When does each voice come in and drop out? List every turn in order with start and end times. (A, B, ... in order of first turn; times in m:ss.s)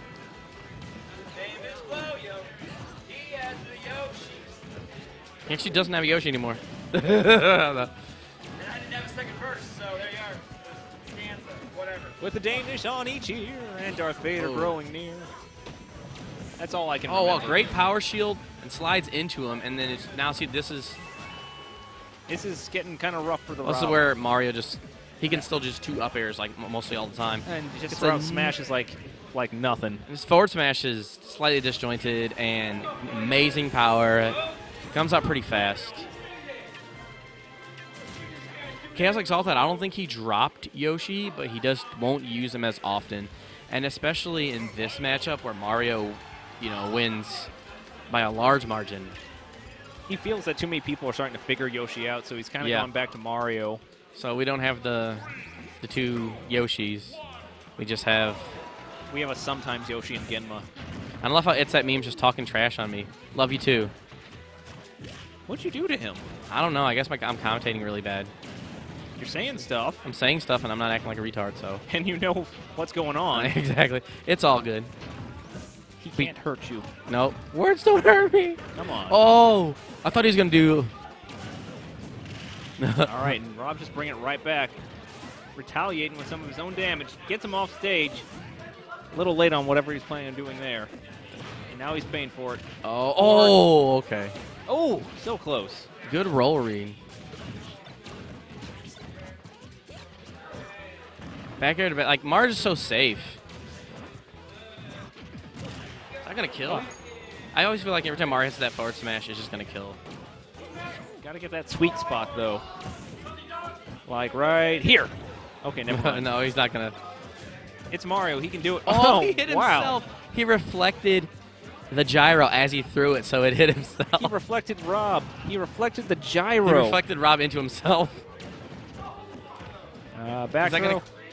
0:01.4-0:02.5 A
0:03.1-0:04.5 A
0:05.5-0:07.9 B
0:08.6-0:12.1 A
0:12.2-0:15.3 C
0:14.4-0:14.8 B
0:16.6-0:17.8 C
0:17.1-0:21.0 B
0:22.3-0:24.0 C
0:23.6-0:28.5 B
0:27.4-0:30.0 C
0:30.1-0:34.4 B
0:34.9-0:36.1 B
0:38.9-0:47.5 B
0:48.1-0:49.2 B
0:50.1-0:53.8 C
0:52.6-0:52.9 B
0:54.1-0:55.3 B
0:55.8-0:57.2 B
0:57.8-0:58.6 B
0:59.1-1:00.7 C
1:01.2-1:03.9 B
1:05.5-1:06.3 C
1:06.5-1:08.3 B
1:09.2-1:10.0 C
1:10.0-1:11.8 B
1:11.9-1:13.5 C
1:13.3-1:14.9 B
1:16.0-1:16.9 C
1:17.1-1:20.9 B
1:18.7-1:19.2 C
1:22.8-1:23.3 B
1:23.0-1:24.8 C
1:25.6-1:28.3 C
1:29.1-1:30.9 C
1:31.7-1:32.6 C
1:32.8-1:34.4 B
1:33.2-1:33.6 C
1:34.7-1:35.9 C
1:36.0-1:37.0 B
1:41.6-1:43.4 B
1:46.2-1:46.9 B
1:47.5-1:50.0 B
1:51.2-1:52.6 C
1:54.1-1:56.3 C
1:55.9-1:57.0 B
1:57.9-2:00.0 C
1:58.9-2:01.3 B
2:01.9-2:04.3 B
2:04.1-2:07.0 C
2:06.6-2:08.2 B
2:10.2-2:11.0 C
2:10.6-2:11.0 B